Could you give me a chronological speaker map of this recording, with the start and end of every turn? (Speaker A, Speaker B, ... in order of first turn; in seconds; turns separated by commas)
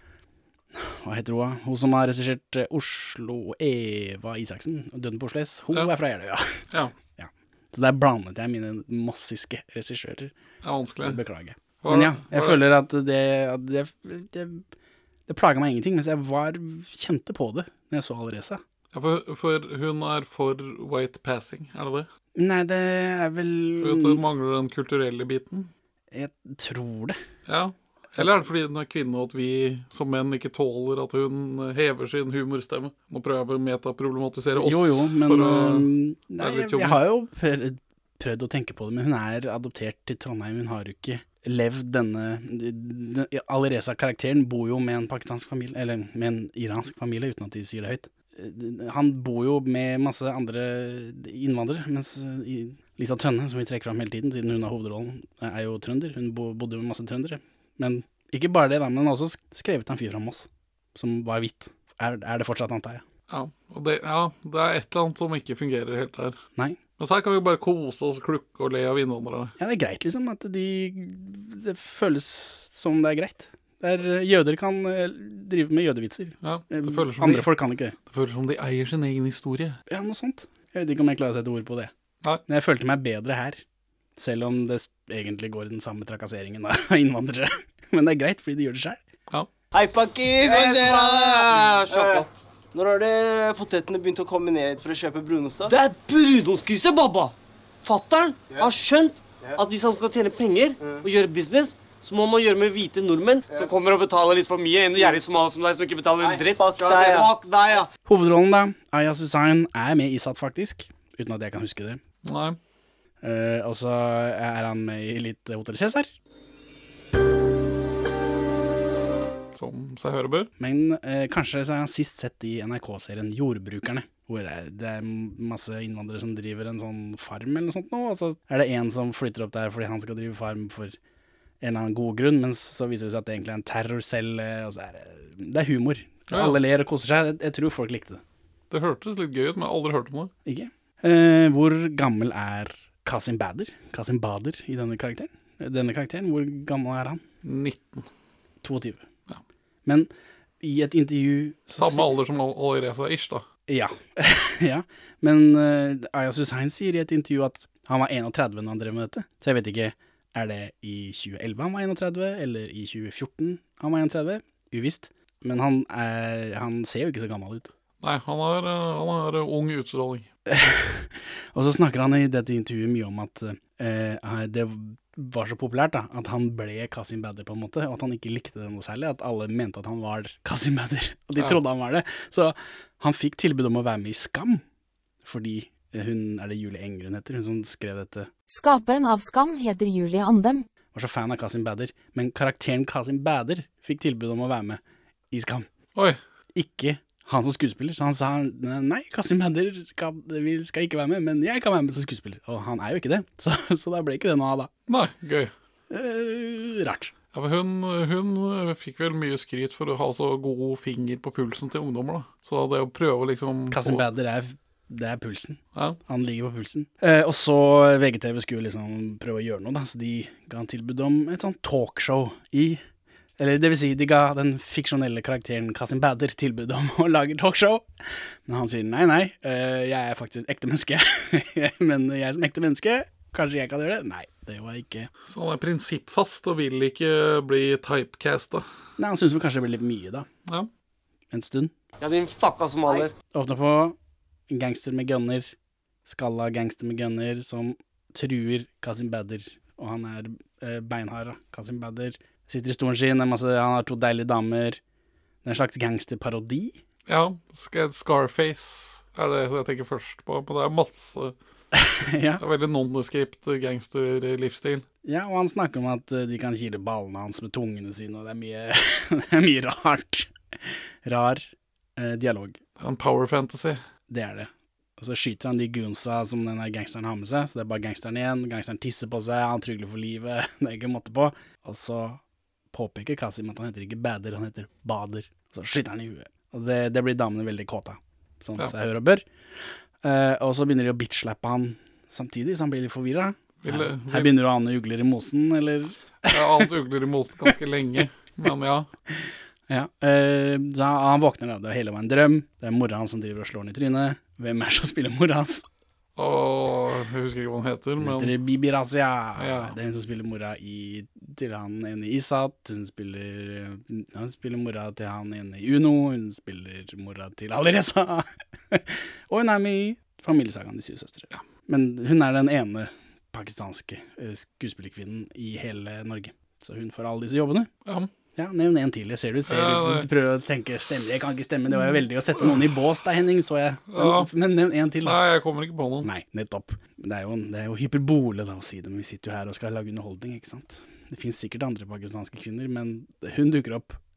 Speaker A: 0.7-10.3, Speaker B: 10.6-11.2, Speaker A: 11.0-14.7, Speaker B: 11.8-12.6, Speaker A: 15.3-18.6, Speaker B: 18.9-22.1, Speaker A: 22.4-24.2, Speaker B: 23.8-25.7, Speaker A: 26.1-27.2, Speaker B: 27.5-37.0, Speaker A: 28.2-28.4, Speaker A: 34.5-63.0, Speaker B: 63.3-66.4, Speaker B: 67.0-69.5, Speaker A: 69.6-78.0, Speaker B: 76.4-79.8, Speaker A: 79.9-81.9, Speaker A: 82.5-83.6, Speaker A: 84.2-89.0, Speaker C: 89.7-95.8, Speaker D: 90.4-92.3, Speaker D: 95.7-107.9, Speaker C: 106.2-107.3, Speaker A: 108.1-112.0, Speaker B: 112.2-112.6, Speaker A: 113.2-116.1, Speaker B: 119.5-120.5, Speaker A: 120.6-131.0, Speaker A: 131.6-138.2, Speaker B: 136.3-136.6, Speaker B: 138.7-140.3, Speaker A: 140.4-147.2, Speaker B: 147.4-148.1, Speaker A: 148.6-149.1, Speaker A: 149.8-152.1, Speaker B: 151.8-153.5, Speaker A: 153.7-167.7, Speaker B: 168.0-170.3, Speaker A: 170.5-184.6, Speaker A: 185.2-188.3, Speaker E: 188.5-190.7, Speaker A: 190.9-195.7, Speaker A: 196.5-204.7, Speaker B: 204.9-205.5, Speaker A: 205.9-207.1, Speaker B: 207.3-214.0, Speaker A: 213.7-222.8, Speaker A: 223.4-227.9, Speaker A: 228.5-235.1, Speaker B: 235.3-238.7, Speaker A: 239.0-240.3, Speaker A: 241.3-241.7, Speaker D: 242.0-243.1, Speaker A: 243.3-244.0, Speaker A: 244.5-245.5, Speaker A: 246.1-254.8, Speaker A: 255.4-256.8, Speaker B: 257.1-261.4, Speaker A: 261.7-262.4, Speaker B: 262.4-264.9, Speaker A: 265.1-270.3, Speaker A: 271.0-272.6, Speaker B: 272.8-273.8, Speaker A: 274.1-282.2, Speaker A: 282.7-296.7, Speaker B: 293.6-294.3, Speaker B: 296.3-298.9, Speaker A: 299.1-305.7, Speaker B: 306.2-308.3, Speaker A: 308.0-327.7, Speaker B: 309.4-309.7, Speaker B: 327.9-328.1, Speaker A: 328.4-335.2, Speaker B: 329.5-330.1, Speaker B: 333.9-334.3, Speaker B: 335.0-336.1, Speaker A: 336.0-344.0